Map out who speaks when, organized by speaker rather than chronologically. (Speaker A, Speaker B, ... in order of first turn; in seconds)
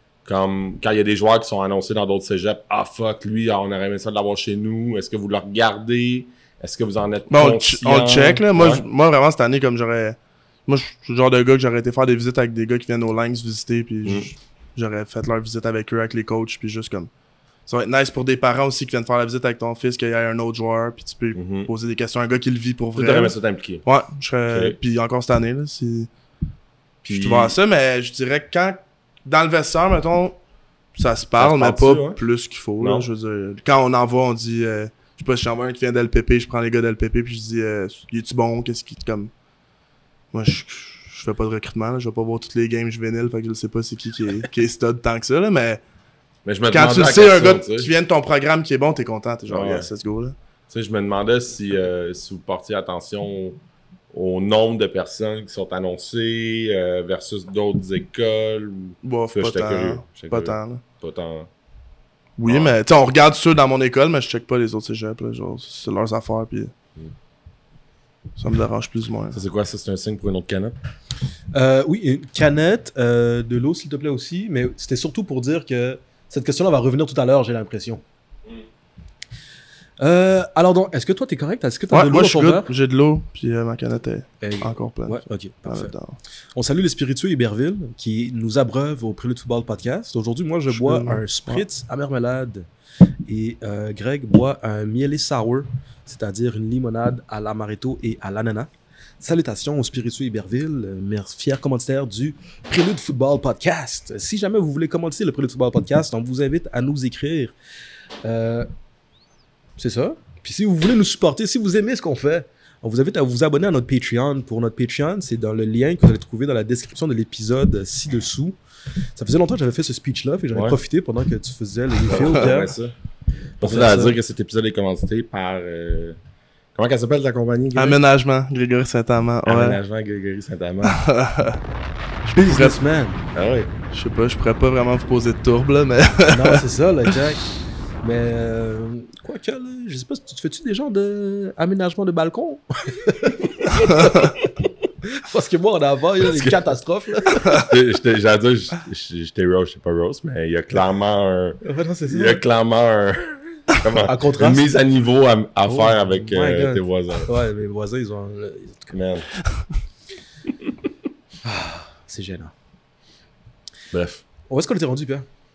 Speaker A: 0.2-8.8, 14.0-14.3, 21.3-21.7, 22.9-23.8, 24.5-24.8, 27.0-27.6, 31.4-32.2, 32.8-33.1, 46.4-47.9, 49.5-49.9, 50.7-53.6, 54.1-61.5, 62.5-62.8, 69.3-70.8, 120.5-120.8, 122.0-122.9, 123.6-126.2, 126.7-128.0, 129.4-131.0, 133.3-133.7, 146.2-146.6, 147.6-157.3, 158.9-159.3, 163.9-164.2
Speaker B: 7.3-17.1, 17.7-26.1, 27.0-30.4, 30.9-39.3, 40.3-45.8, 46.7-50.3, 59.0-60.8, 62.4-66.7, 68.4-69.4, 81.9-86.2, 90.7-91.6, 127.7-129.8, 130.8-131.6, 132.2-132.8, 133.9-136.6
Speaker C: 71.5-78.0, 80.0-82.7, 84.4-85.9, 86.5-92.7, 93.3-107.5, 108.2-108.7, 109.8-118.5, 119.1-122.7, 123.6-124.1, 132.3-133.2, 136.3-137.5, 138.0-147.6, 151.6-152.4, 154.0-154.7, 155.7-158.9, 161.4-162.5, 164.5-165.2